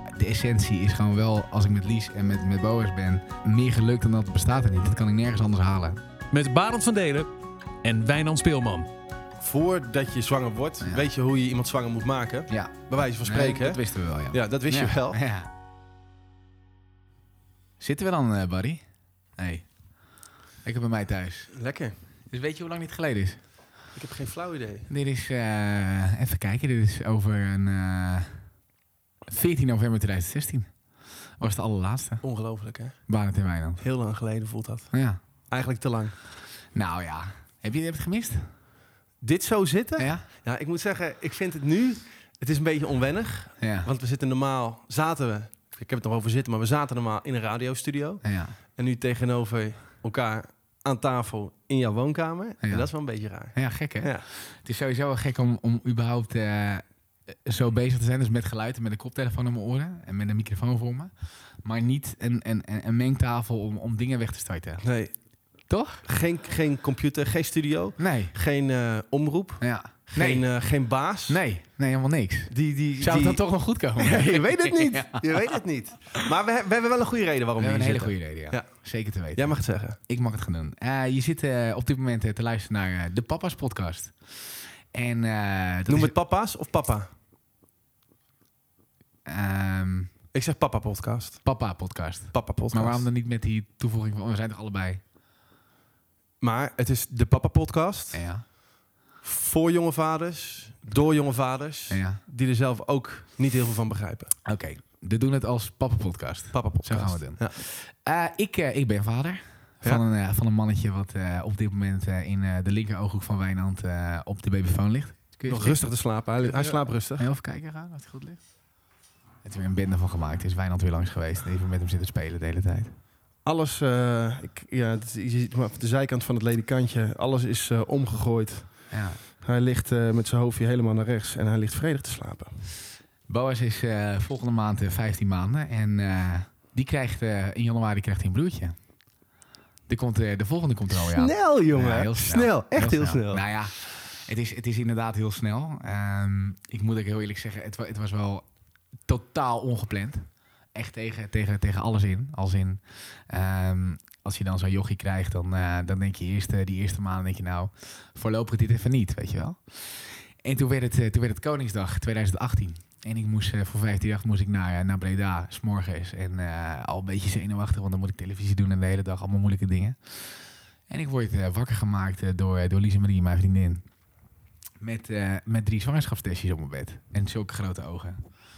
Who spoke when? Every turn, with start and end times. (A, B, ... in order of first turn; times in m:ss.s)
0:00.1-0:06.0 A
0:06.3-0:07.3 B
0:07.8-0:08.9 B
0:09.4-0:15.2 C
0:12.5-0:15.5 A
0:17.8-0:18.8 A
0:19.4-0:19.7 A
0:20.6-0:21.5 A
0:21.5-0:22.0 C
0:22.3-0:23.4 A
0:23.9-0:24.9 C
0:24.9-0:28.5 A
0:29.3-0:30.7 A
0:31.4-0:32.2 A
0:32.2-0:33.0 C
0:33.1-0:33.8 A
0:33.8-0:36.2 C
0:34.9-0:35.2 A
0:36.7-0:38.5 A
0:39.2-0:54.2 C
0:40.0-0:40.2 A
0:43.6-0:43.9 A
0:48.2-0:48.6 A
0:52.6-0:52.9 A
0:53.4-1:04.8 A
1:04.8-1:05.4 C
1:05.7-1:06.0 A
1:06.0-1:11.4 C
1:08.0-1:08.3 A
1:09.6-1:10.6 A
1:11.3-1:15.6 A
1:12.5-1:13.4 C
1:14.0-1:20.0 C
1:17.6-1:26.1 A
1:25.9-1:27.1 C
1:29.2-1:30.1 A
1:30.3-1:31.4 C
1:31.4-1:35.0 A
1:32.3-1:33.0 C
1:36.4-1:38.5 C
1:38.1-1:38.4 A
1:39.2-1:44.3 C
1:41.9-1:42.2 A
1:44.4-1:55.9 A
1:46.5-1:47.6 C
1:55.5-1:57.2 C
1:56.4-1:58.4 A
1:59.4-2:02.9 A
2:03.4-2:12.6 C
2:08.9-2:09.2 A
2:13.3-2:18.8 A
2:19.9-2:28.4 A
2:20.9-2:23.4 C
2:29.0-2:53.8 A
2:54.8-2:58.3 A